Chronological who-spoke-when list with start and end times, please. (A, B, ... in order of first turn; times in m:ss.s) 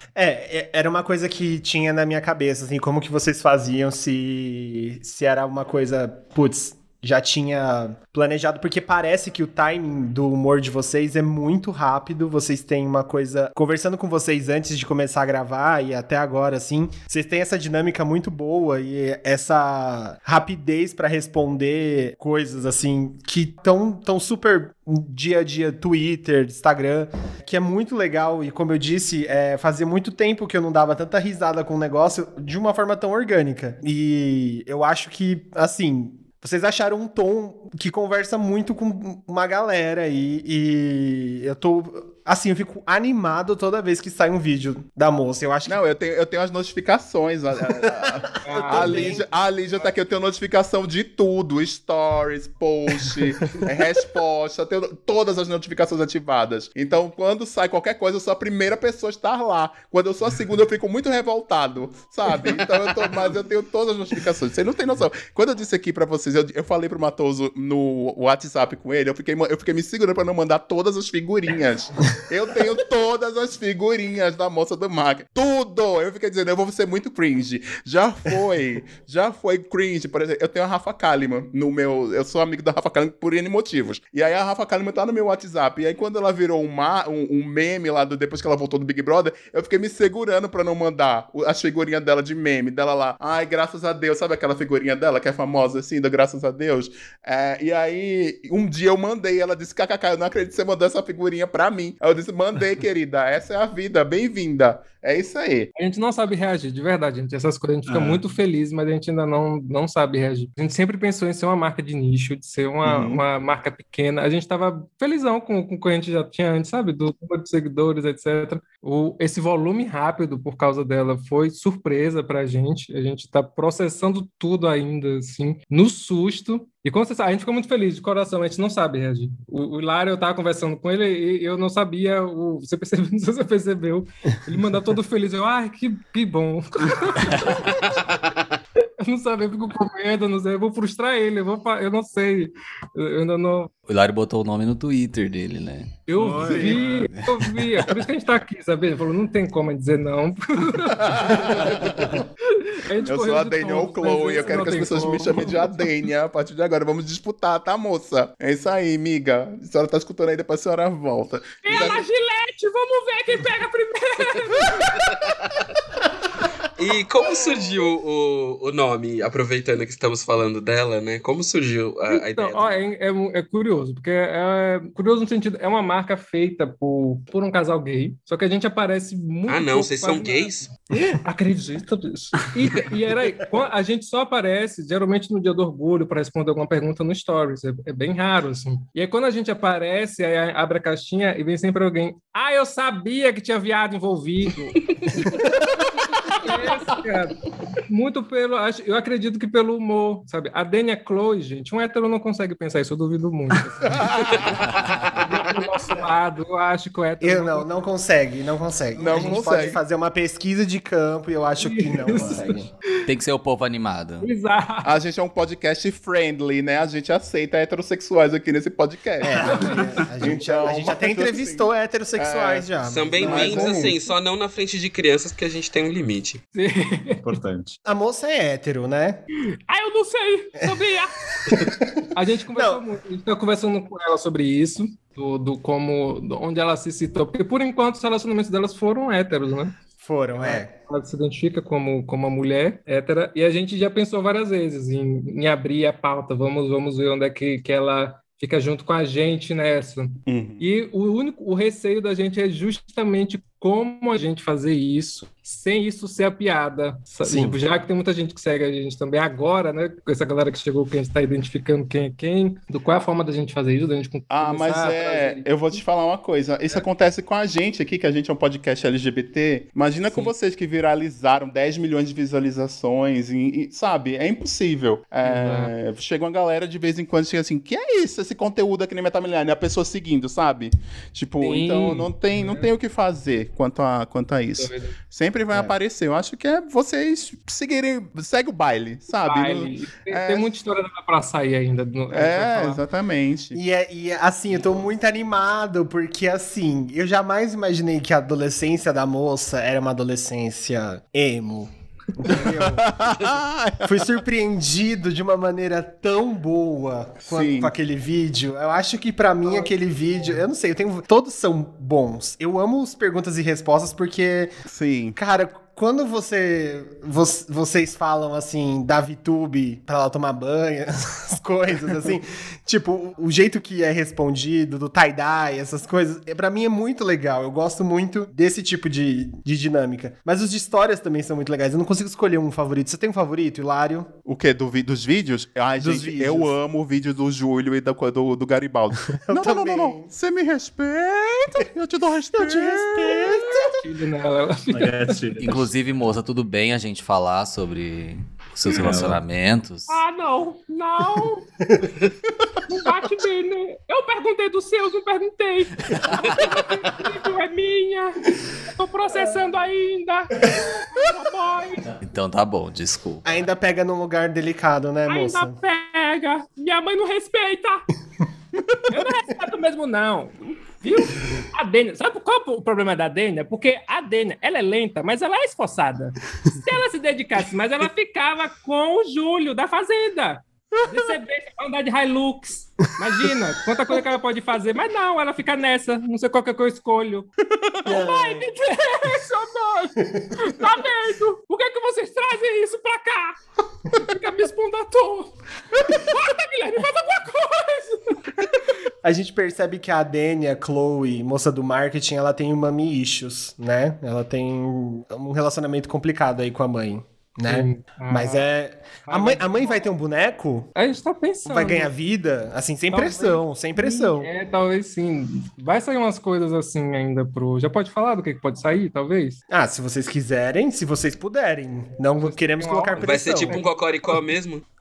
0:00.1-0:45.8 A
0:45.6-1:45.7 B
0:47.8-0:49.2 A
0:48.4-0:49.2 C
1:45.7-2:17.9 C
1:47.9-1:48.2 D
1:52.8-1:53.2 B
2:17.3-2:17.6 E
2:19.0-2:23.7 C
2:23.9-2:27.4 E
2:26.1-2:35.9 C
2:26.1-2:27.1 D
2:31.0-2:32.2 B
2:33.0-2:42.0 B
2:41.6-2:45.3 C
2:46.8-2:52.8 F
2:52.1-3:15.4 C
2:59.5-3:00.7 F
3:16.2-3:24.5 C
3:23.8-3:24.9 B
3:25.1-3:27.7 C
3:27.2-3:32.7 A
3:29.0-3:29.8 B
3:29.0-3:29.7 C
3:31.6-3:32.6 C
3:32.1-3:32.4 D
3:33.0-3:34.3 E
3:34.2-3:34.9 C
3:34.8-3:43.9 B
3:39.2-3:44.0 A
3:42.8-3:46.4 F
3:46.5-3:47.4 C
3:47.2-3:47.8 D
3:47.8-3:49.2 A
3:49.7-3:51.1 C
3:51.5-3:51.8 A
3:52.1-3:59.7 C
3:52.5-3:52.8 A
4:00.0-4:00.7 A
4:00.4-4:25.5 C
4:10.3-4:10.6 B
4:17.2-4:17.6 A
4:24.3-4:50.5 B
4:35.2-4:35.7 C
4:41.4-4:42.7 C
4:44.6-4:44.9 C
4:49.2-4:52.8 C
4:52.1-4:53.6 B
4:53.5-5:03.0 A
5:02.3-5:04.1 B
5:03.8-5:14.5 A
5:07.3-5:07.7 B
5:14.7-5:15.2 B
5:15.1-5:34.1 A
5:34.2-5:43.4 B
5:35.8-5:36.5 A
5:39.1-5:40.1 A
5:42.3-5:43.8 A
5:43.2-5:45.2 C
5:44.7-5:45.7 D
5:45.4-5:50.0 E
5:48.7-5:49.2 D
5:49.9-5:51.5 C
5:52.7-6:01.9 C
6:02.0-6:03.3 E
6:03.2-6:05.6 A
6:05.1-6:07.8 C
6:08.9-6:27.3 C
6:20.8-6:21.1 B
6:27.5-6:27.8 B
6:27.8-6:28.5 A
6:27.8-6:33.4 C
6:33.9-6:35.3 C
6:35.9-6:38.2 C
6:39.0-6:50.7 A
6:47.5-6:48.4 C
6:49.1-6:49.9 C
6:50.8-6:51.9 C
6:51.4-6:54.3 A
6:52.9-6:59.4 C
6:59.5-7:03.6 A
7:02.2-7:03.6 C
7:03.0-7:04.6 F